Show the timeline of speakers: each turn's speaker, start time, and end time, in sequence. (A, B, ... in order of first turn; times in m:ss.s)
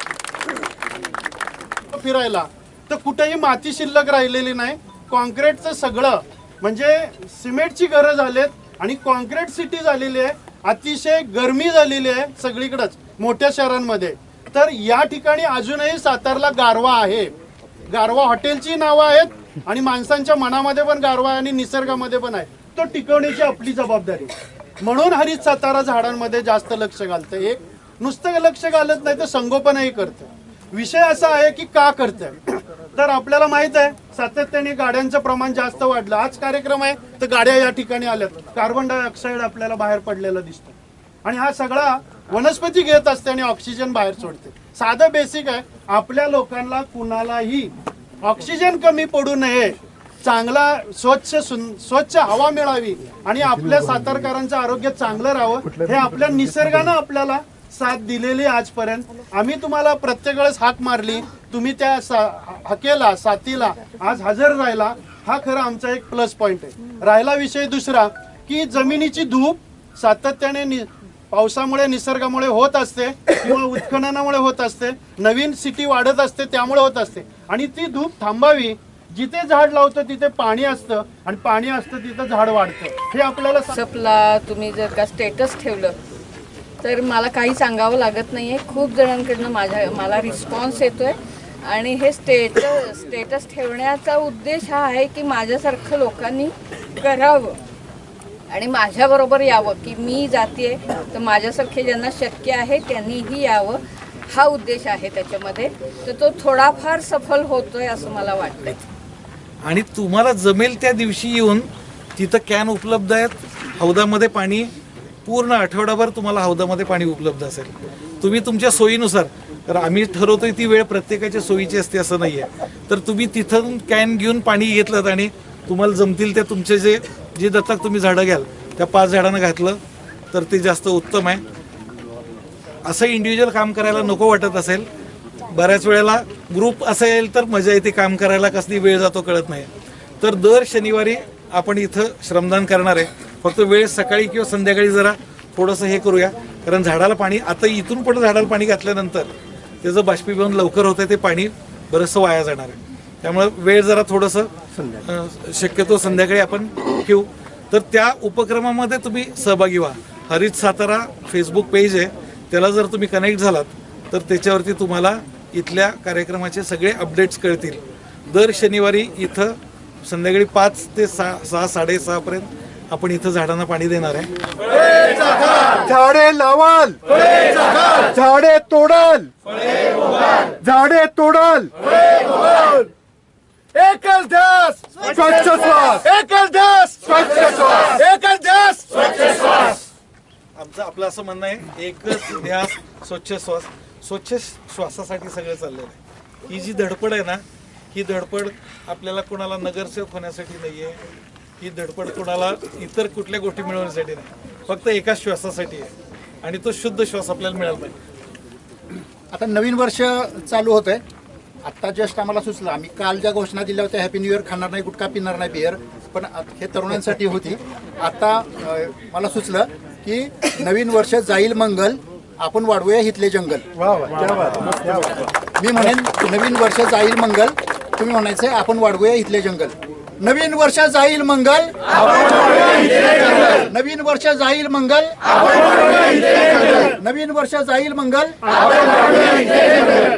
0:01.9-0:17.3 A
0:17.9-1:23.8 A
1:23.8-1:26.0 B
1:26.8-1:37.6 B
1:38.5-1:48.8 B
1:49.6-1:54.7 C
1:55.2-2:09.8 C
2:10.3-2:11.4 C
2:12.8-2:14.9 C
2:15.5-2:19.7 C
2:20.2-2:29.3 C
2:29.8-2:34.5 C
2:34.8-2:35.0 D
2:35.0-2:54.3 C
2:55.7-2:59.3 D
3:00.6-3:02.9 D
3:03.8-3:08.9 D
3:09.3-3:09.7 C
3:10.6-3:21.0 C
3:21.6-3:25.9 C
3:26.4-3:28.0 C
3:29.3-3:31.0 E
3:31.6-3:43.7 E
3:43.8-3:45.3 D
3:45.6-3:58.5 E